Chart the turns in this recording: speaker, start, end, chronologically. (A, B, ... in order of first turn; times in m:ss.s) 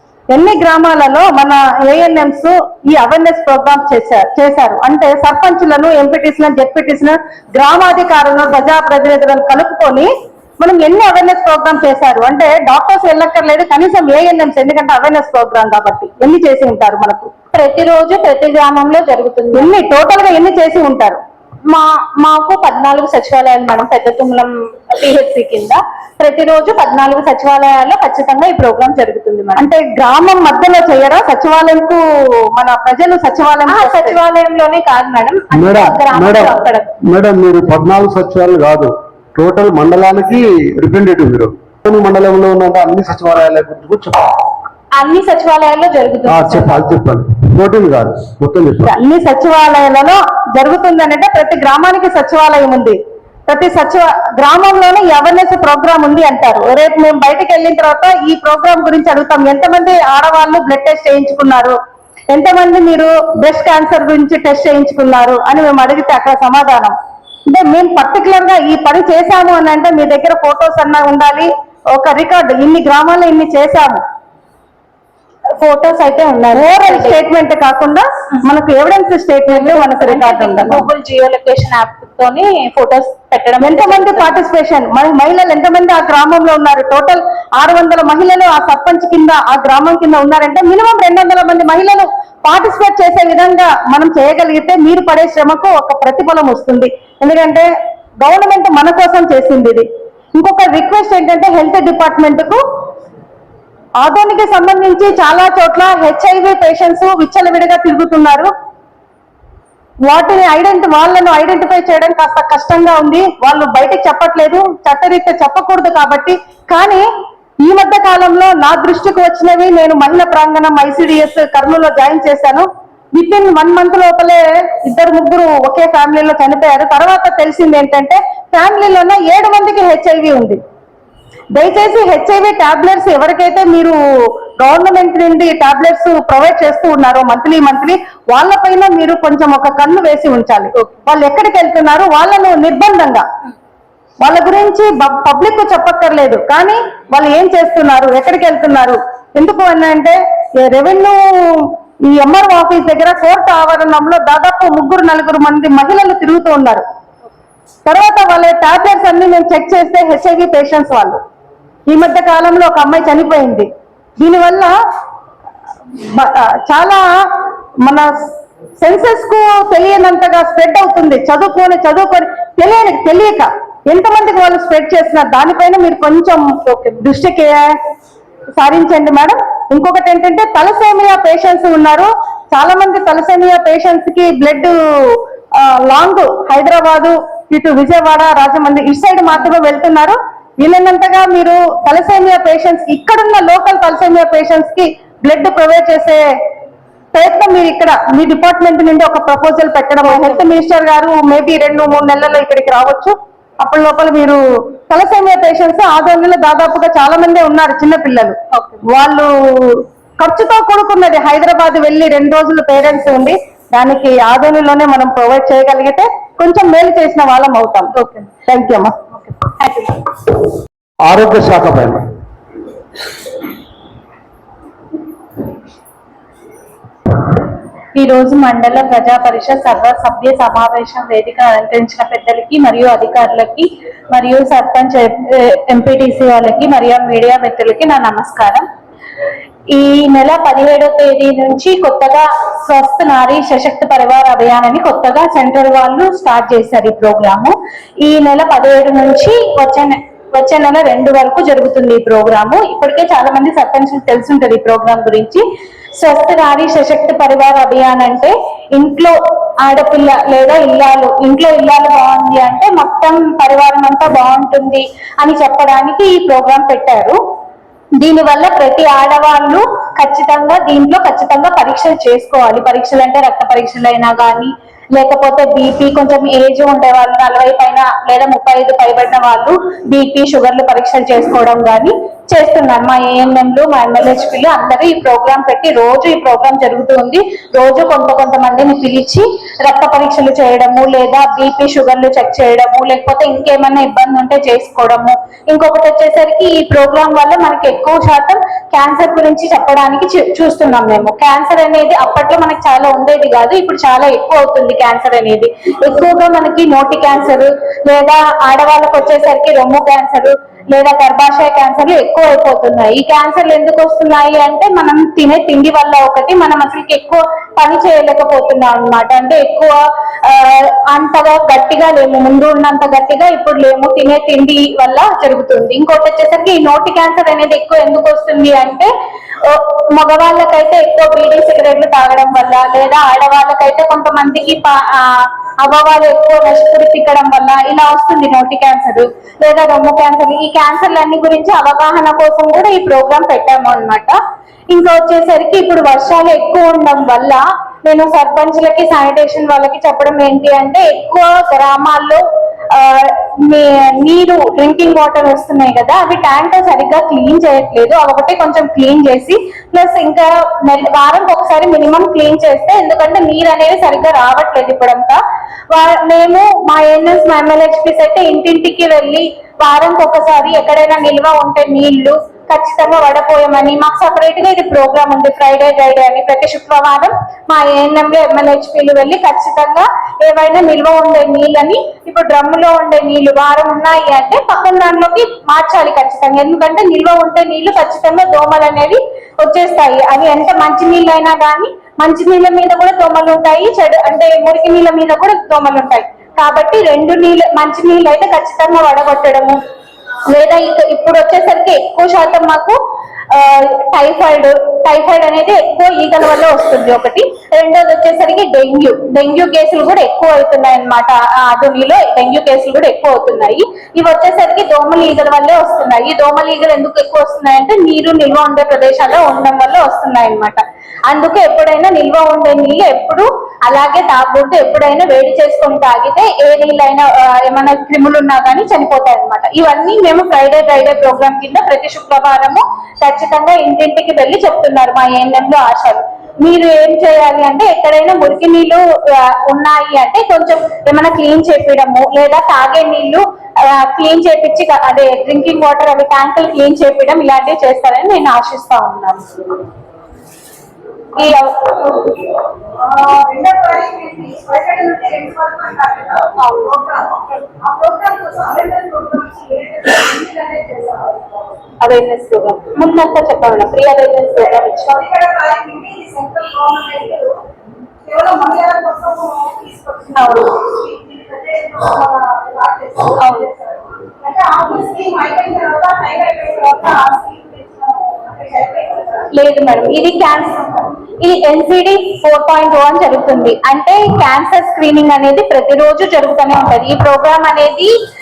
0:00.3-0:17.3 A
0:17.5-0:19.7 B
0:19.5-0:21.2 A
0:21.7-0:29.6 B
0:29.6-0:32.0 A
0:32.5-0:34.2 A
0:33.7-0:36.9 B
0:35.5-0:44.4 C
0:44.9-0:46.8 B
0:46.2-0:48.9 C
0:48.9-1:01.8 A
1:02.3-1:06.9 A
1:07.5-1:14.0 A
1:15.6-1:17.2 B
1:16.5-1:20.8 A
1:19.5-1:24.4 B
1:23.6-1:37.7 A
1:38.2-1:39.8 A
1:40.4-1:42.6 A
1:44.0-1:48.5 A
1:50.1-1:57.1 A
1:57.6-2:10.6 A
2:11.5-2:23.2 A
2:24.2-2:36.8 A
2:37.8-2:41.2 A
2:41.9-2:44.7 A
2:46.0-2:47.3 A
2:47.8-2:57.7 A
2:58.6-3:16.2 A
3:17.1-3:37.9 A
3:20.0-3:20.4 B
3:28.5-3:28.8 B
3:38.0-3:38.3 B
3:38.5-3:38.9 A
3:39.4-3:40.0 B
3:41.0-3:42.0 C
3:47.9-3:58.6 B
3:59.7-4:15.4 B
4:16.0-4:27.2 B
4:28.0-5:28.9 B
5:29.4-5:44.2 B
5:44.7-5:52.2 B
5:52.7-6:05.2 B
6:05.7-6:39.6 B
6:40.3-6:42.8 B
6:43.3-7:29.2 B
7:31.2-7:32.0 B
7:32.8-7:41.3 A
7:36.4-7:36.7 B
7:41.8-7:44.9 B
7:44.8-7:47.3 A
7:48.0-7:59.3 A
7:50.2-7:50.5 B
7:53.2-7:53.5 B
7:59.3-8:07.9 B